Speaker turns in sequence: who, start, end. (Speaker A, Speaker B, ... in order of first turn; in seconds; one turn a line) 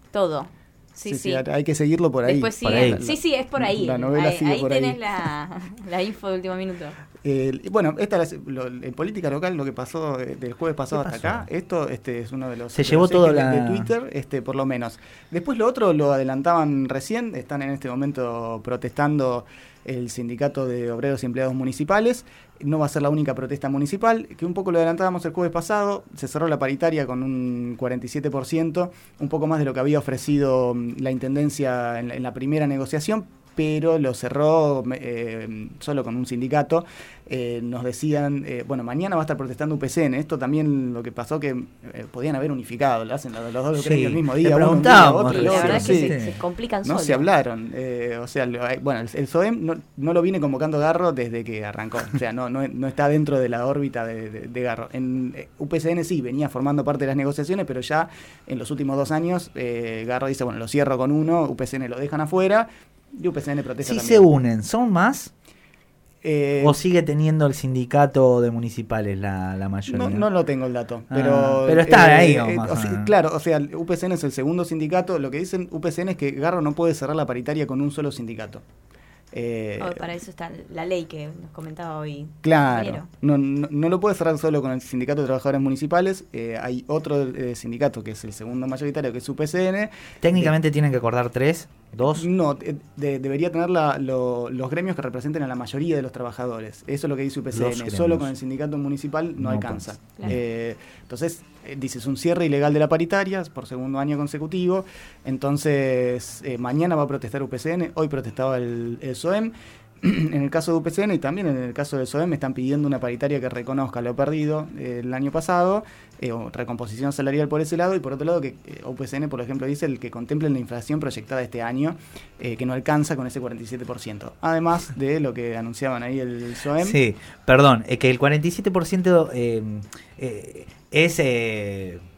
Speaker A: 0.1-1.4
Speaker B: 1.0-5.3
Speaker A: 2.2-7.0
Speaker C: 2.6-3.0
Speaker B: 7.2-46.1
Speaker C: 10.9-11.5
Speaker C: 12.7-13.9
Speaker C: 43.7-46.4
Speaker A: 45.2-47.2
Speaker B: 46.8-64.3
Speaker C: 63.8-65.3
Speaker B: 66.2-66.8
Speaker C: 66.6-70.3
Speaker B: 69.8-78.6
Speaker C: 71.1-73.1
Speaker B: 79.3-80.0
Speaker A: 79.8-83.1
Speaker B: 82.4-90.5
Speaker C: 90.2-92.3
Speaker B: 92.1-127.0
Speaker C: 97.5-98.3
Speaker C: 99.4-100.4
Speaker C: 126.8-132.0